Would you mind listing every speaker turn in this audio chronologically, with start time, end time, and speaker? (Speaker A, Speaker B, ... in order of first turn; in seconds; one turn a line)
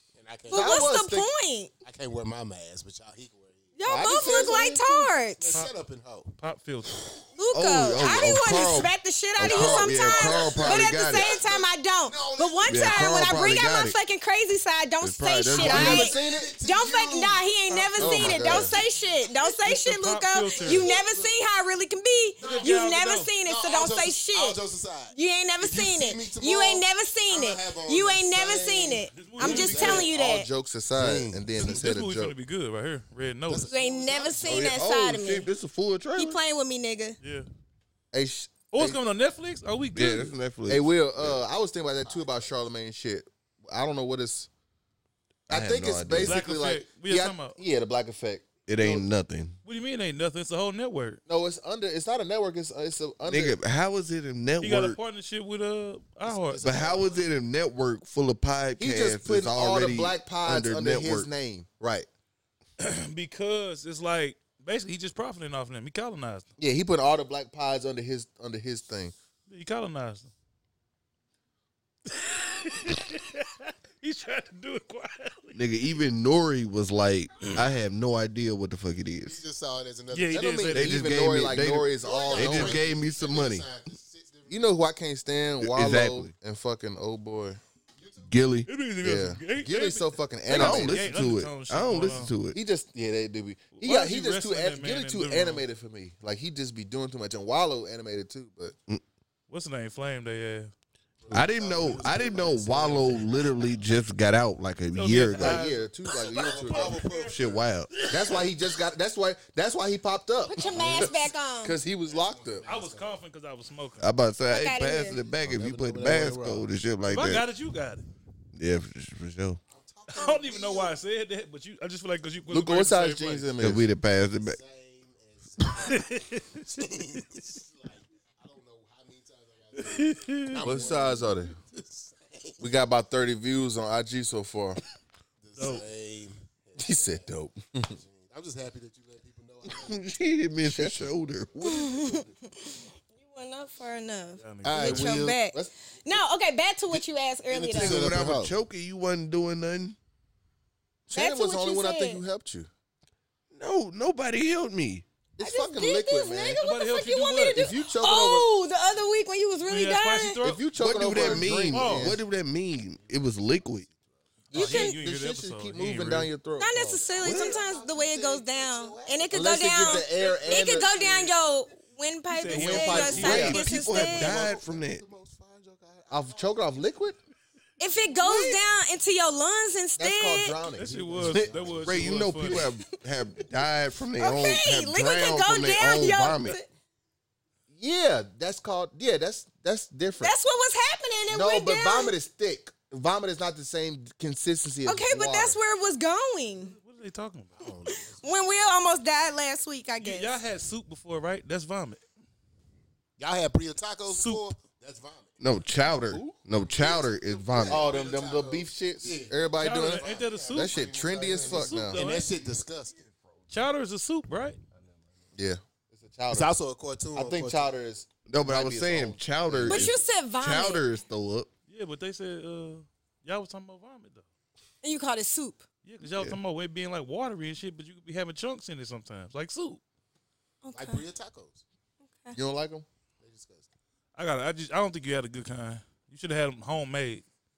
Speaker A: 0.1-0.9
Speaker B: 0.5-1.3
Speaker C: 0.5-1.7
Speaker A: 1.8-4.2
Speaker C: 3.8-5.6
Speaker B: 3.9-5.1
Speaker A: 5.4-6.3
Speaker D: 6.4-7.1
Speaker C: 7.3-24.6
Speaker E: 7.5-11.3
Speaker A: 9.4-13.3
Speaker E: 12.7-14.0
Speaker E: 15.0-16.1
Speaker A: 15.6-19.3
Speaker B: 15.6-16.5
Speaker D: 17.7-18.8
Speaker B: 18.0-18.7
Speaker D: 19.4-20.9
Speaker A: 20.5-21.4
Speaker A: 22.4-22.8
Speaker D: 22.4-23.3
Speaker A: 23.4-30.1
Speaker C: 25.1-30.5
Speaker D: 29.1-30.1
Speaker B: 29.6-32.3
Speaker A: 30.9-31.8
Speaker D: 31.5-33.7
Speaker A: 33.5-34.8
Speaker C: 33.7-35.5
Speaker E: 34.5-36.4
Speaker C: 36.1-37.2
Speaker D: 37.2-37.5
Speaker B: 38.1-39.0
Speaker D: 38.7-40.3
Speaker E: 39.9-41.4
Speaker B: 40.7-44.5
Speaker A: 42.0-42.6
Speaker E: 45.5-46.4
Speaker B: 45.5-49.1
Speaker D: 46.2-47.6
Speaker E: 48.7-49.6
Speaker D: 49.6-51.2
Speaker B: 51.3-53.5
Speaker E: 53.2-55.0
Speaker D: 54.6-56.6
Speaker A: 56.2-57.3
Speaker E: 56.6-61.3
Speaker B: 58.8-62.1
Speaker D: 62.8-66.5
Speaker B: 66.6-69.1
Speaker D: 69.5-70.3
Speaker D: 72.0-75.6
Speaker E: 75.5-79.4
Speaker A: 79.2-80.8
Speaker D: 80.1-81.0
Speaker B: 80.7-82.8
Speaker E: 80.7-83.7
Speaker A: 81.6-84.8
Speaker B: 84.5-87.6
Speaker E: 85.6-86.3
Speaker A: 88.0-88.3
Speaker E: 88.2-88.7
Speaker D: 88.7-92.3
Speaker B: 89.0-91.2
Speaker E: 90.5-92.6
Speaker B: 92.5-98.7
Speaker D: 93.8-95.6
Speaker D: 99.5-100.7
Speaker A: 101.2-103.7
Speaker E: 101.3-105.7
Speaker D: 104.9-107.4
Speaker B: 105.3-107.0
Speaker A: 106.2-107.6
Speaker E: 107.3-107.9
Speaker D: 107.9-108.5
Speaker B: 108.1-112.7
Speaker C: 110.4-111.8
Speaker A: 110.6-111.2
Speaker A: 111.9-113.2
Speaker D: 112.7-114.1
Speaker E: 114.0-117.4
Speaker C: 114.5-115.2
Speaker A: 115.3-116.7
Speaker D: 117.1-118.0
Speaker E: 118.5-119.6
Speaker A: 119.7-121.0
Speaker D: 120.1-123.5
Speaker B: 122.5-123.9
Speaker E: 123.6-124.6
Speaker A: 124.4-132.7
Speaker D: 125.6-126.7
Speaker D: 129.8-130.6
Speaker B: 130.6-131.6
Speaker B: 132.6-134.8
Speaker A: 135.4-140.0
Speaker D: 135.6-135.8
Speaker B: 136.8-137.9
Speaker E: 139.7-142.2
Speaker B: 140.6-141.1
Speaker C: 141.6-148.1
Speaker D: 144.4-145.1
Speaker A: 144.6-145.4
Speaker B: 144.9-145.7
Speaker A: 146.9-148.5
Speaker E: 147.7-149.9
Speaker B: 151.1-152.7
Speaker C: 151.1-152.2
Speaker E: 153.5-155.0
Speaker B: 155.4-156.6
Speaker C: 155.4-160.4
Speaker D: 156.6-157.7
Speaker B: 157.5-158.5
Speaker D: 159.6-162.1
Speaker B: 160.4-162.2
Speaker E: 160.8-163.8
Speaker D: 164.5-166.3
Speaker B: 164.5-167.3
Speaker C: 164.5-165.0
Speaker C: 166.6-174.5
Speaker A: 166.9-169.3
Speaker E: 167.2-167.5
Speaker B: 169.3-171.1
Speaker D: 172.3-173.7
Speaker B: 172.5-173.7
Speaker E: 173.2-175.0
Speaker A: 173.5-176.8
Speaker B: 176.1-177.2
Speaker C: 177.8-180.6
Speaker A: 178.0-178.6
Speaker B: 180.0-181.8
Speaker D: 180.8-182.7
Speaker A: 180.8-182.2
Speaker E: 181.8-186.6
Speaker C: 184.2-186.7
Speaker B: 187.7-190.3
Speaker C: 190.2-192.1
Speaker B: 191.3-195.6
Speaker C: 194.8-196.7
Speaker D: 196.7-197.7
Speaker A: 197.6-198.7
Speaker C: 197.8-200.4
Speaker D: 200.0-202.0
Speaker A: 203.2-205.3
Speaker D: 204.1-204.4
Speaker E: 205.4-207.9
Speaker B: 206.1-206.4
Speaker A: 206.5-213.0
Speaker B: 207.6-212.1
Speaker D: 209.6-210.8
Speaker D: 211.4-212.3
Speaker D: 213.5-214.6
Speaker B: 215.3-216.5
Speaker A: 216.3-217.7
Speaker B: 217.1-220.0
Speaker E: 218.3-221.5
Speaker C: 219.7-220.8
Speaker D: 221.7-224.2
Speaker C: 224.8-225.6
Speaker D: 225.8-229.8
Speaker C: 230.6-231.0
Speaker A: 230.7-231.6
Speaker B: 232.3-232.8
Speaker A: 233.2-233.7
Speaker D: 234.2-237.2